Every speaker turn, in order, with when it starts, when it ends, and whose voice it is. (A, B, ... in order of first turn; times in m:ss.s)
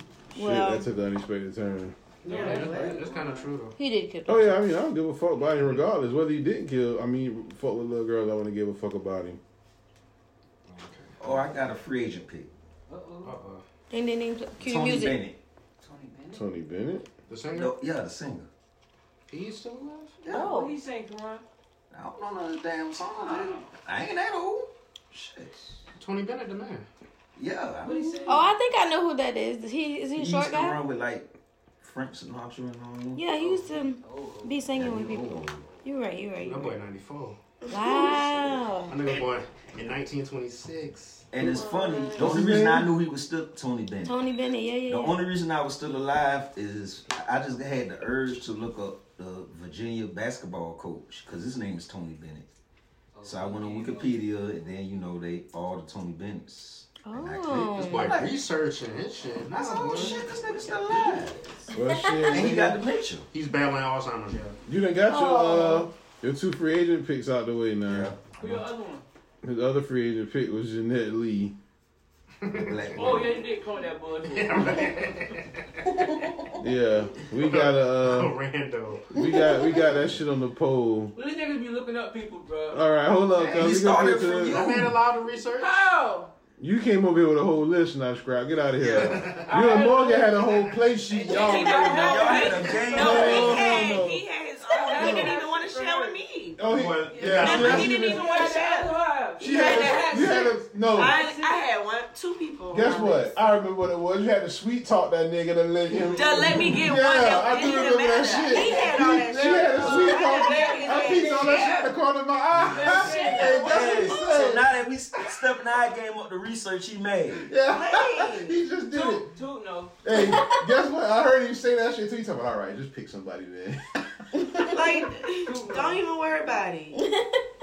0:00.3-0:02.0 A
0:00.4-0:00.9 B
0:02.2-0:03.0 C
0:02.2-0:03.5 D
0:02.3-0:03.8 E
0:03.8-0:04.6 B
0:04.3-0:09.4 A
0:10.7-0:11.4 E
0:11.2-0:12.5 F
0:12.9-0:13.4 D
0:13.2-0:13.6 E
0:13.9-0:15.2 B
0:14.6-0:15.4 F
0:15.8-0:16.5 D
0:16.3-0:17.1 A
0:17.3-0:17.7 E
0:17.5-0:18.5 F
0:19.3-0:20.1 E
0:20.2-0:20.6 F
0:20.3-0:20.8 B
0:20.3-0:21.4 D
0:21.9-0:25.8 F
0:23.2-0:23.7 D
0:26.0-0:26.9 E
0:27.4-0:28.3 F
0:27.8-0:28.5 D
0:28.3-0:30.9 B
0:30.1-0:31.3 F
0:31.8-0:33.2 F
0:33.2-0:36.8 B
0:33.4-0:34.7 D
0:34.7-0:35.7 F
0:36.4-0:37.4 E
0:37.7-0:38.6 C
0:37.7-0:39.0 B
0:38.9-0:41.2 E
0:41.3-0:44.2 F
0:41.4-0:42.3 C
0:42.2-0:42.9 A
0:44.1-0:45.2 B
0:44.9-0:52.5 F
0:53.1-0:54.2 D
0:53.2-0:58.4 F
0:57.0-0:58.2 B
0:57.6-1:00.2 E
0:59.5-1:01.5 F
1:00.5-1:01.1 D
1:01.7-1:02.8 A
1:01.8-1:02.5 B
1:02.3-1:03.3 F
1:03.3-1:04.6 E
1:04.7-1:08.2 A
1:05.1-1:05.9 B
1:07.9-1:08.2 F
1:08.4-1:09.0 D
1:09.4-1:11.6 A
1:12.4-1:13.2 E
1:12.5-1:13.5 F
1:12.9-1:15.4 D
1:14.3-1:16.0 E
1:16.6-1:18.4 A
1:17.4-1:19.1 E
1:19.1-1:21.1 A
1:19.2-1:19.8 B
1:21.2-1:22.9 D
1:22.7-1:24.7 A
1:23.4-1:23.7 D
1:23.4-1:25.0 F
1:24.5-1:25.9 E
1:25.6-1:26.3 D
1:26.6-1:32.1 A
1:28.8-1:29.5 E
1:29.4-1:30.6 D
1:31.1-1:34.0 D
1:31.2-1:36.6 C
1:31.8-1:33.7 F
1:32.9-1:34.2 A
1:34.7-1:36.2 D
1:35.0-1:35.3 A
1:36.6-1:38.3 A
1:36.7-1:37.9 E
1:37.1-1:41.6 D
1:37.3-1:43.4 C
1:39.4-1:41.2 A
1:42.7-1:54.7 A
1:46.0-1:51.8 C
1:47.4-1:47.8 D
1:48.4-1:51.9 D
1:52.6-1:54.1 D
1:53.0-1:53.5 C
1:53.5-1:57.5 F
1:57.5-1:59.3 A
1:57.6-1:58.6 C
1:58.9-2:00.0 D
2:00.0-2:03.8 A
2:00.1-2:00.6 B
2:04.4-2:04.8 B
2:04.6-2:07.0 C
2:05.4-2:06.6 D
2:07.0-2:07.4 B